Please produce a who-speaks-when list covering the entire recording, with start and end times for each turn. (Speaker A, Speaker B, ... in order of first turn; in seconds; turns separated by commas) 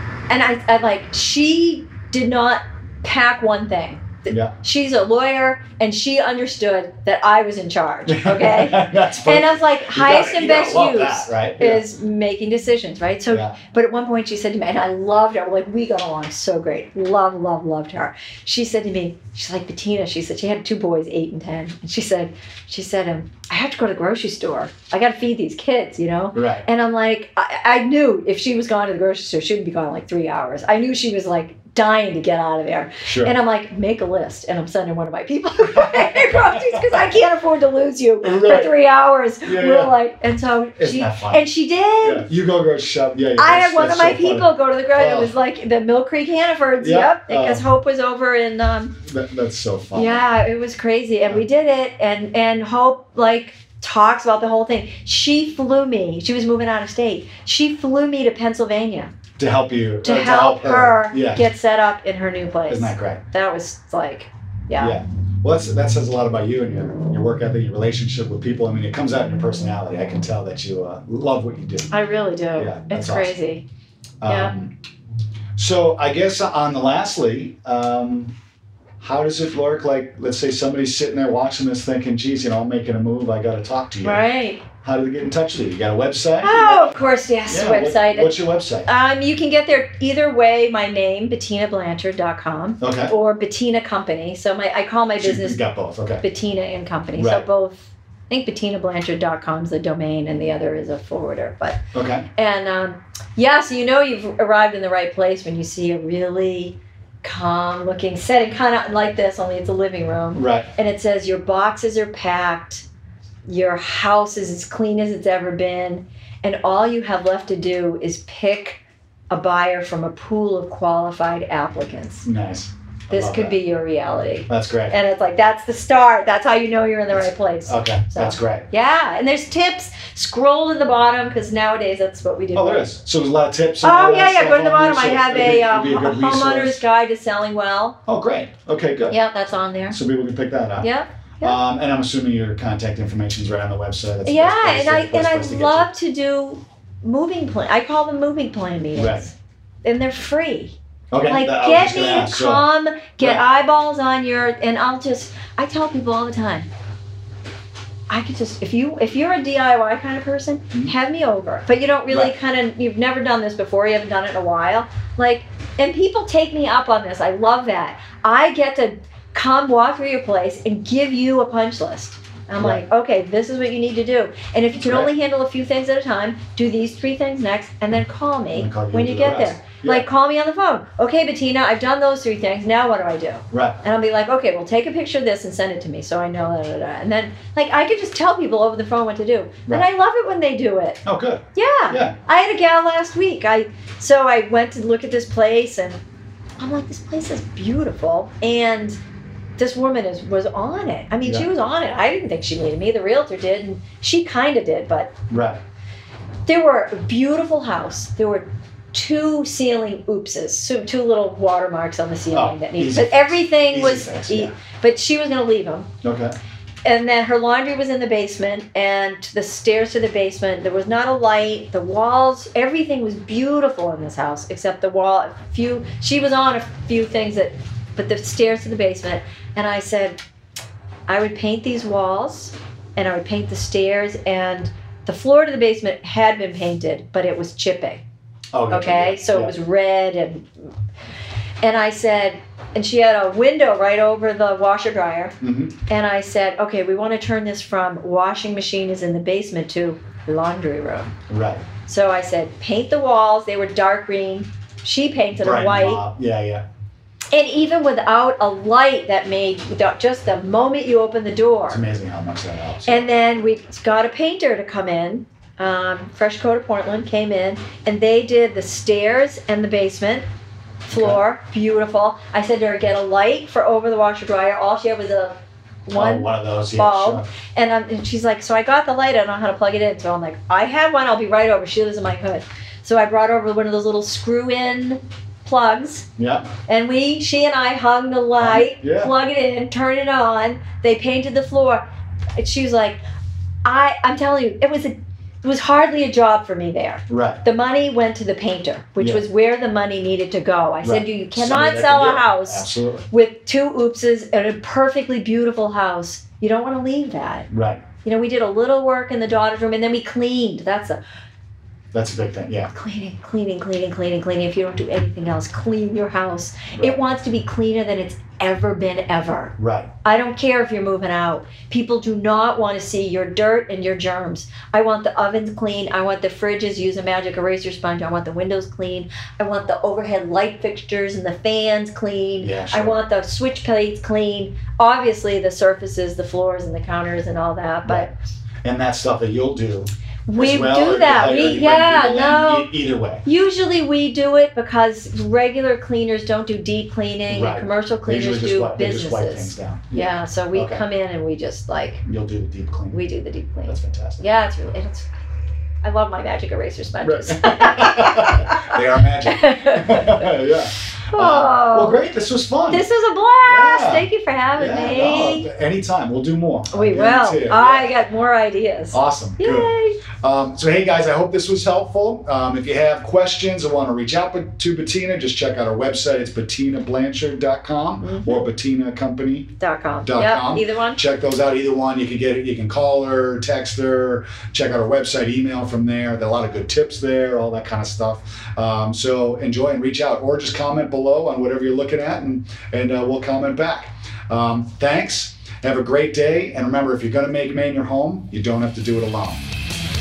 Speaker A: 0.3-42.3, Speaker B: 4.3-4.5, Speaker B: 8.1-11.8, Speaker B: 13.3-13.6, Speaker B: 26.3-26.6, Speaker B: 33.0-33.3, Speaker B: 35.6-37.0, Speaker B: 38.2-38.7, Speaker B: 39.4-39.9, Speaker B: 40.8-41.4, Speaker B: 42.0-45.3, Speaker A: 43.4-49.0, Speaker B: 46.8-47.6, Speaker B: 49.0-50.2, Speaker A: 49.9-59.1, Speaker B: 59.4-61.4, Speaker A: 60.0-64.9, Speaker B: 62.7-63.2, Speaker B: 64.8-71.9, Speaker A: 71.9-73.7, Speaker B: 72.5-73.3, Speaker B: 74.2-74.7, Speaker A: 74.2-74.5, Speaker B: 75.6-78.3, Speaker B: 79.0-84.2, Speaker A: 84.0-84.6, Speaker B: 84.8-86.9, Speaker A: 86.4-95.6, Speaker B: 87.5-88.9, Speaker B: 92.8-93.1, Speaker B: 95.2-96.2, Speaker A: 96.2-101.8, Speaker B: 97.1-97.5, Speaker B: 101.9-102.3, Speaker A: 102.3-112.8, Speaker B: 110.3-110.7, Speaker A: 113.5-118.8, Speaker A: 119.3-122.3, Speaker B: 122.2-123.6, Speaker A: 123.1-132.9, Speaker B: 124.5-125.0, Speaker B: 127.7-128.7, Speaker B: 132.5-136.8, Speaker A: 133.8-138.0, Speaker B: 138.1-139.2, Speaker A: 139.1-140.0, Speaker B: 139.9-145.9, Speaker A: 140.8-141.6, Speaker A: 144.2-149.3, Speaker B: 148.9-149.3, Speaker A: 149.8-150.7, Speaker B: 151.1-152.7, Speaker A: 151.2-156.7, Speaker A: 158.1-191.0, Speaker B: 174.8-175.1, Speaker B: 178.5-180.1, Speaker B: 183.5-183.8, Speaker B: 191.0-192.1, Speaker A: 191.5-196.0, Speaker A: 196.6-199.0, Speaker A: 199.6-205.2, Speaker B: 205.3-205.6, Speaker A: 206.4-215.9, Speaker B: 212.3-214.5, Speaker B: 216.0-216.3, Speaker A: 216.8-230.2, Speaker A: 231.1-238.0, Speaker B: 238.5-239.5, Speaker A: 238.7-240.5, Speaker A: 241.6-245.3, Speaker B: 245.4-245.8, Speaker A: 245.9-251.1, Speaker B: 251.3-251.6, Speaker A: 251.8-256.0, Speaker B: 255.3-256.6, Speaker A: 257.3-261.8, Speaker B: 261.7-263.0, Speaker A: 262.9-270.2, Speaker A: 270.9-275.3, Speaker B: 270.9-271.2, Speaker A: 275.9-286.1, Speaker B: 275.9-277.3, Speaker B: 286.2-286.5, Speaker A: 286.6-291.8, Speaker B: 288.4-289.1, Speaker A: 292.4-293.0, Speaker A: 293.6-307.5, Speaker B: 297.1-297.4, Speaker B: 299.0-299.2, Speaker B: 300.8-303.1, Speaker B: 307.5-307.8, Speaker A: 308.0-311.0, Speaker B: 311.9-312.7, Speaker A: 312.7-338.1, Speaker B: 319.6-319.9, Speaker B: 332.4-333.0, Speaker B: 337.8-338.1, Speaker B: 338.6-343.2, Speaker A: 340.3-342.7, Speaker A: 343.2-352.0, Speaker B: 347.3-350.8, Speaker B: 352.0-353.0, Speaker A: 352.9-355.1, Speaker B: 353.6-354.2, Speaker A: 355.8-360.3, Speaker B: 357.0-362.8, Speaker A: 361.1-362.0, Speaker A: 362.7-365.5, Speaker B: 363.4-367.9, Speaker A: 366.7-370.0, Speaker B: 368.9-399.5, Speaker A: 378.0-378.5, Speaker A: 379.6-381.0